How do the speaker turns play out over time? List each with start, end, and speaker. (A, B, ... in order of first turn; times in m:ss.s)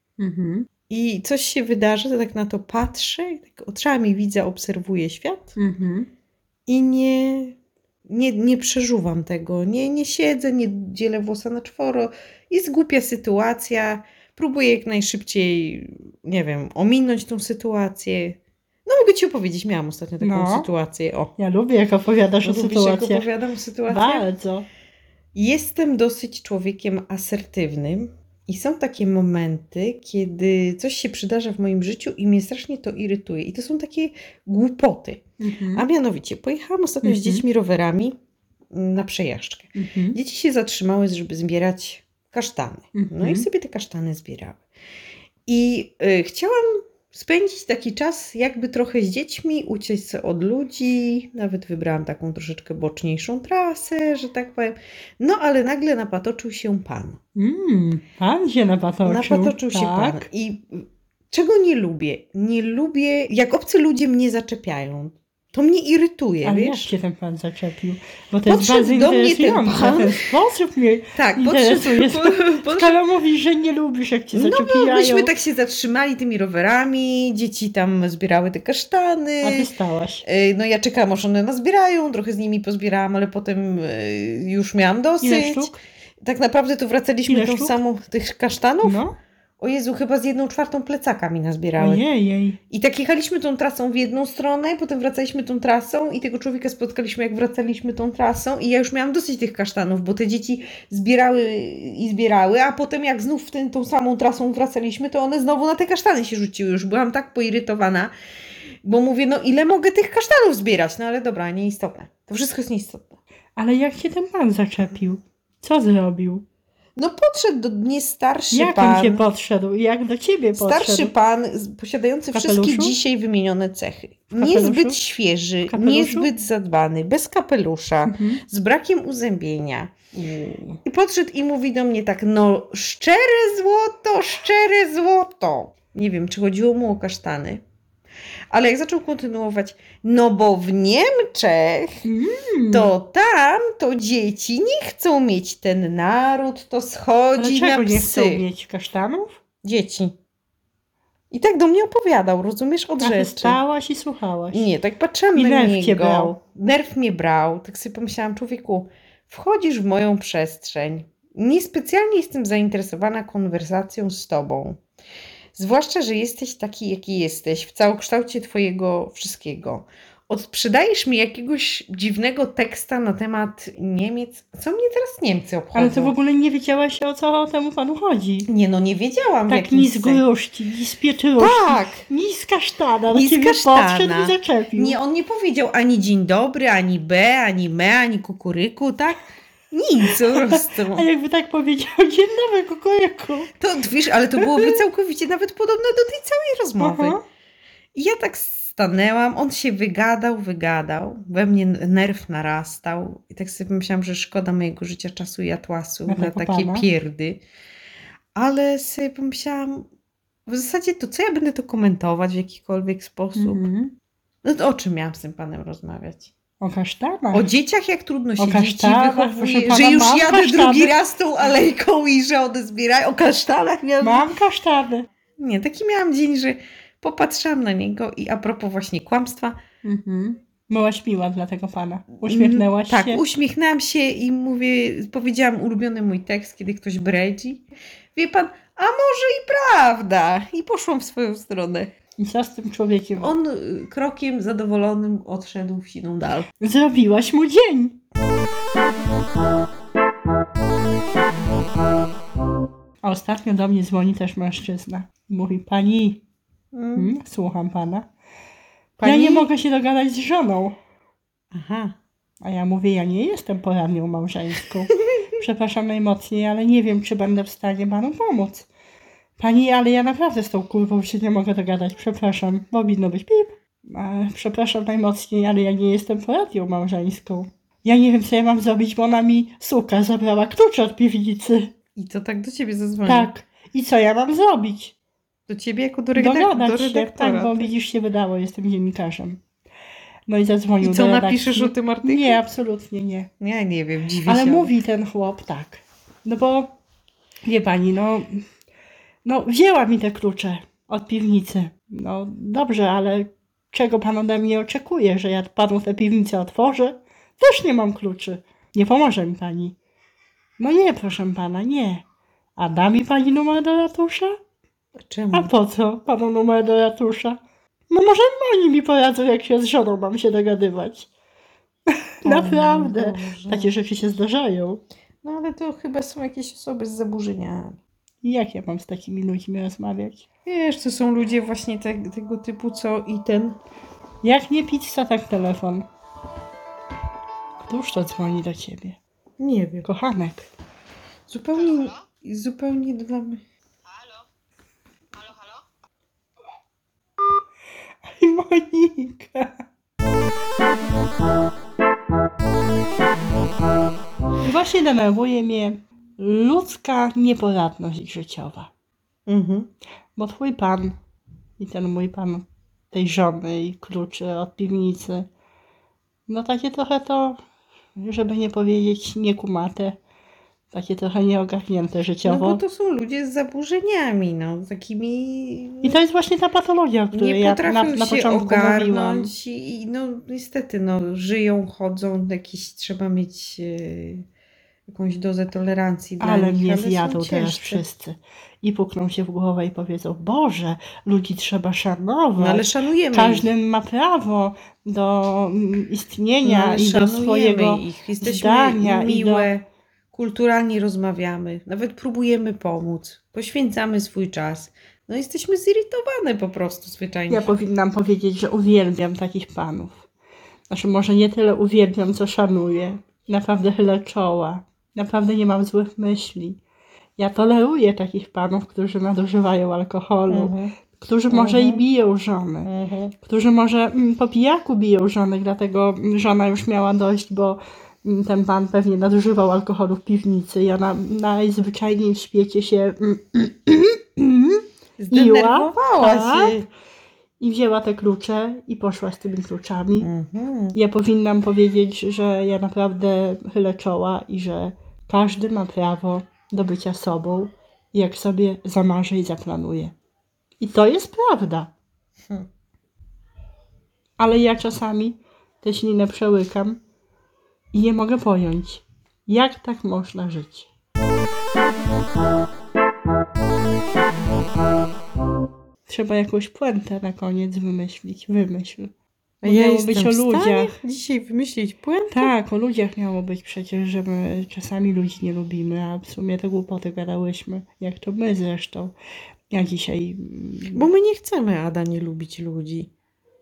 0:00.2-0:00.7 A
0:00.9-0:05.6 B
0:05.6-0:06.1 A
0:06.7-0:21.3 B
0:20.2-0:20.7 A
0:21.4-0:23.2 A
0:22.4-0:24.3 B
0:23.9-0:24.6 A
0:25.3-0:38.1 B
0:35.4-0:35.8 A
0:37.0-0:37.4 A
0:38.7-0:44.6 B
0:39.7-0:40.2 A
0:42.9-0:43.4 A
0:45.5-0:57.2 B
0:57.3-1:00.3 A
0:59.0-1:06.9 B
1:06.4-1:15.3 A
1:08.4-1:10.3 B
1:11.1-1:13.0 B
1:14.3-1:19.7 B
1:19.4-1:20.2 A
1:20.2-1:29.0 B
1:25.2-1:25.8 A
1:27.3-1:27.8 A
1:28.8-1:29.2 A
1:29.6-1:32.0 B
1:31.8-1:32.6 A
1:32.7-1:48.1 B
1:48.8-1:53.2 B
1:53.6-1:56.4 A
1:57.0-1:59.2 B
1:58.5-2:01.1 A
2:00.6-2:10.0 B
2:02.3-2:03.0 A
2:04.4-2:05.0 A
2:05.7-2:06.3 A
2:08.0-2:08.4 A
2:10.1-2:10.8 A
2:10.8-2:17.6 B
2:18.5-2:22.0 B
2:22.0-2:22.9 A
2:22.7-2:28.4 B
2:27.4-2:29.4 A
2:29.6-2:30.2 B
2:31.3-2:33.6 B
2:33.0-2:34.7 A
2:34.5-2:44.8 B
2:35.3-2:36.4 A
2:45.5-2:56.1 B
2:55.7-2:58.5 A
2:58.5-3:00.2 B
2:59.5-3:05.0 A
3:01.4-3:02.0 B
3:03.1-3:11.0 B
3:10.1-3:13.5 A
3:13.6-3:17.2 B
3:14.4-3:14.8 A
3:16.8-3:17.2 A
3:17.9-3:27.4 B
3:26.1-3:26.9 A
3:28.3-3:29.9 B
3:30.4-3:33.6 B
3:33.4-3:33.9 A
3:34.4-3:36.3 B
3:36.6-3:37.5 A
3:37.3-3:44.3 B
3:38.4-3:40.9 A
3:44.0-3:45.1 A
3:45.4-3:49.6 B
3:49.8-3:53.2 A
3:52.2-3:57.6 B
3:58.1-4:01.9 B
4:02.2-4:03.3 A
4:03.2-4:06.5 B
4:06.6-4:08.0 A
4:13.0-4:16.2 A
4:16.7-4:17.1 B
4:16.9-4:18.1 A
4:19.0-4:19.5 B
4:19.0-4:20.7 A
4:21.5-4:22.0 B
4:22.4-4:28.7 A
4:29.4-4:41.7 A
4:42.0-4:43.3 B
4:43.0-4:44.9 A
4:45.5-4:47.7 B
4:46.2-4:49.4 A
4:50.3-4:53.3 A
4:50.8-4:52.4 B
4:53.4-4:54.7 B
4:54.2-4:56.7 A
4:57.4-4:58.4 A
4:59.2-5:09.7 A
5:10.6-5:12.0 A
5:12.6-5:14.4 A
5:15.0-5:15.5 B
5:15.3-5:17.4 A
5:17.9-5:21.1 A
5:21.9-5:24.8 A
5:22.2-5:23.7 B
5:25.2-5:27.8 B
5:28.2-5:30.2 A
5:30.4-5:33.6 B
5:34.2-5:35.8 A
5:37.6-5:39.0 A
5:39.4-5:39.9 B
5:39.8-5:40.5 A
5:41.3-5:43.4 B
5:48.0-5:49.6 A
5:54.4-5:58.7 A
5:59.3-5:59.7 B
6:00.2-6:01.0 A
6:01.6-6:05.3 A
6:06.3-6:07.4 A
6:08.0-6:10.0 A
6:10.7-6:12.6 A
6:12.2-6:16.0 B
6:15.8-6:19.3 A
6:17.1-6:24.2 B
6:24.9-6:27.8 B
6:26.2-6:39.5 A
6:32.4-6:33.5 B
6:36.4-6:47.5 B
6:47.3-6:50.0 A
6:50.7-6:56.6 A
6:57.2-7:02.7 A
7:00.3-7:00.8 B
7:01.3-7:01.8 B
7:02.6-7:03.1 B
7:03.2-7:16.6 A
7:15.0-7:16.7 B
7:17.4-7:20.1 A
7:20.0-7:20.8 B
7:20.7-7:29.9 A
7:30.6-7:31.7 A
7:34.2-7:36.8 A
7:37.7-7:40.7 A
7:45.9-7:48.9 A
7:49.4-7:52.3 B
7:49.4-7:50.8 A
7:52.1-7:58.9 A
7:59.5-8:00.8 A
8:00.7-8:02.9 B